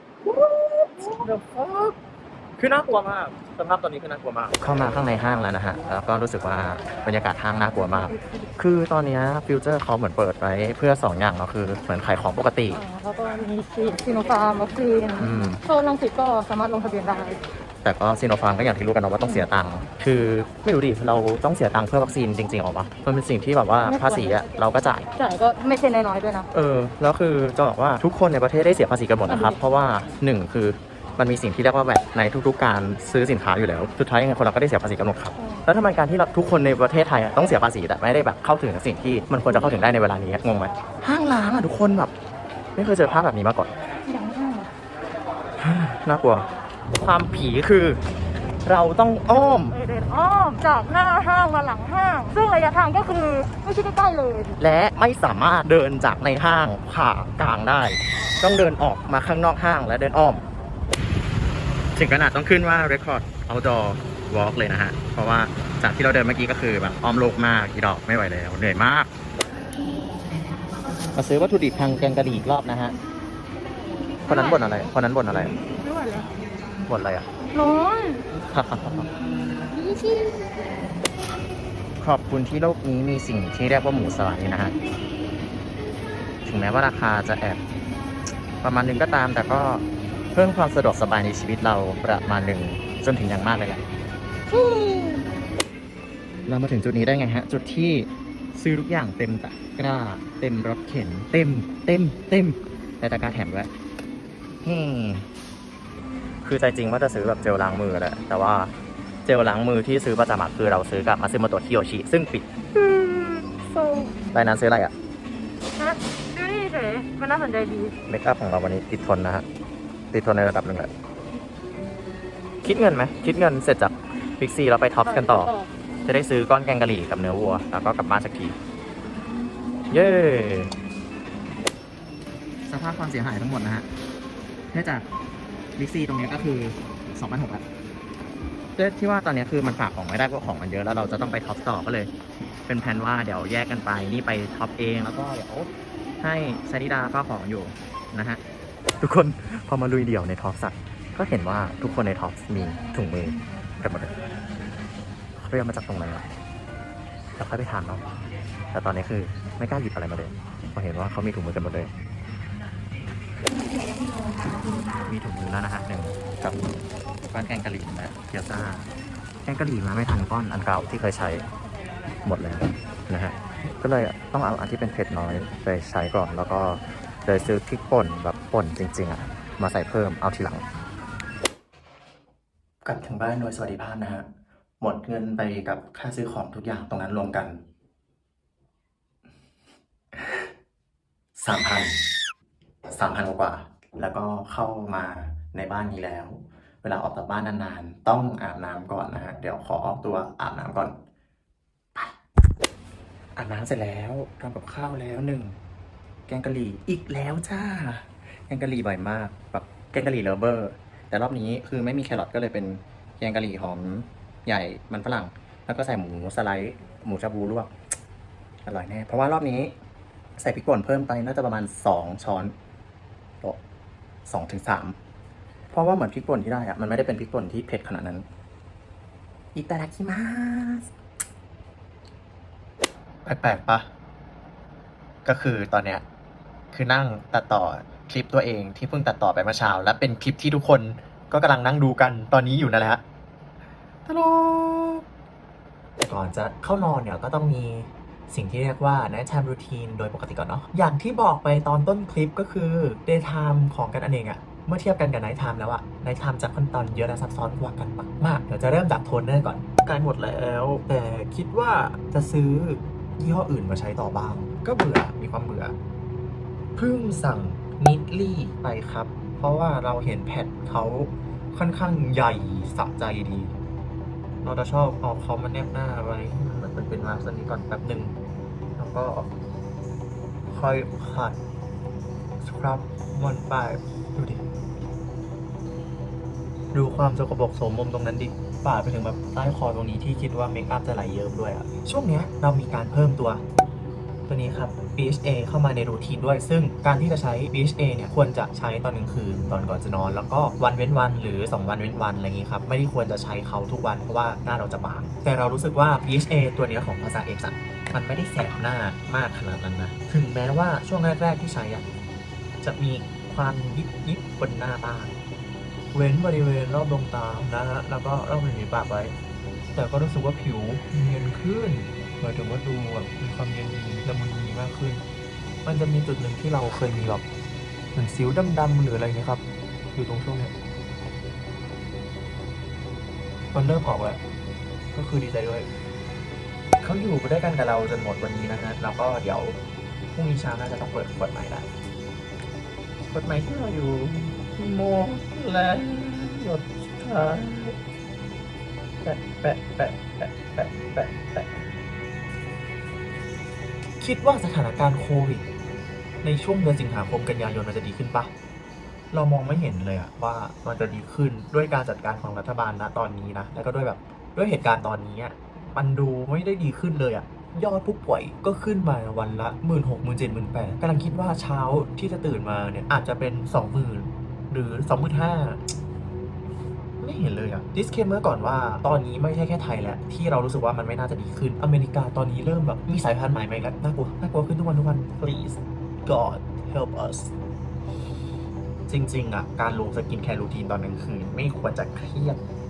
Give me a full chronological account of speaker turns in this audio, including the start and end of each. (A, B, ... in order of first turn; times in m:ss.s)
0:00.2-0:02.0 A
0:02.6-0:12.8 A
0:12.7-0:17.4 B
0:15.2-0:15.6 A
0:17.8-0:25.1 A
0:23.8-0:24.4 B
0:25.2-0:26.5 B
0:26.5-0:42.1 A
0:29.3-0:29.6 B
0:42.8-0:43.7 A
0:44.0-0:44.7 B
0:45.6-0:46.5 A
0:47.0-0:48.0 A
0:48.6-0:49.8 A
0:49.6-0:54.6 B
0:54.6-1:00.4 A
1:02.0-1:09.1 A
1:11.1-1:13.0 A
1:14.3-1:14.6 B
1:14.3-1:15.6 A
1:16.8-1:17.3 A
1:17.5-1:18.2 B
1:18.5-1:19.1 A
1:19.7-1:20.4 B
1:22.0-1:24.8 A
1:26.4-1:27.6 A
1:28.6-1:33.8 A
1:34.5-1:35.2 A
1:36.5-1:43.7 A
1:44.6-1:45.3 A
1:46.4-1:48.7 A
1:49.2-1:54.9 A
1:55.8-1:57.9 B
1:58.1-1:59.4 A
2:00.1-2:00.9 A
2:02.6-2:05.5 A
2:05.0-2:05.7 B
2:06.0-2:08.6 A
2:09.9-2:10.7 A
2:12.7-2:13.9 A
2:14.7-2:15.1 A
2:15.8-2:17.6 A
2:18.8-2:22.1 A
2:22.7-2:25.7 A
2:26.2-2:28.4 A
2:29.0-2:34.2 A
2:35.4-2:36.2 A
2:37.4-2:38.0 A
2:38.7-2:41.9 A
2:45.0-2:46.7 A
2:47.2-2:48.9 A
2:49.4-2:51.5 A
2:52.2-3:00.6 A
3:02.8-3:04.2 A
3:04.8-3:07.6 A
3:10.2-3:10.4 A
3:11.4-3:12.0 A
3:12.9-3:20.9 A
3:23.4-3:25.6 A
3:26.3-3:37.7 A
3:38.6-3:39.7 A
3:40.4-3:42.5 A
3:44.2-3:45.0 A
3:45.7-3:48.2 A
3:49.5-3:50.9 A
3:53.2-3:53.9 A
3:55.2-3:56.0 A
3:56.7-4:03.0 A
4:04.0-4:05.0 A
4:06.0-4:25.8 A
4:26.8-4:33.5 A
4:34.4-4:38.2 A
4:38.8-4:39.3 A
4:40.5-4:41.4 A
4:42.4-4:44.4 A
4:46.7-4:53.4 A
4:54.2-5:11.8 A
5:12.6-5:15.1 A
5:15.9-5:19.1 A
5:19.7-5:25.0 A
5:25.6-5:27.2 A
5:27.9-5:29.4 A
5:29.9-5:30.5 A
5:33.5-5:34.2 A
5:34.9-5:35.7 A
5:36.8-5:39.6 A
5:40.1-5:41.7 A
5:43.1-5:47.8 A
5:49.0-5:51.6 A
5:54.0-5:55.5 A
5:56.2-5:58.3 A
5:59.1-6:15.6 A
6:17.0-6:27.3 A
6:28.9-6:32.4 A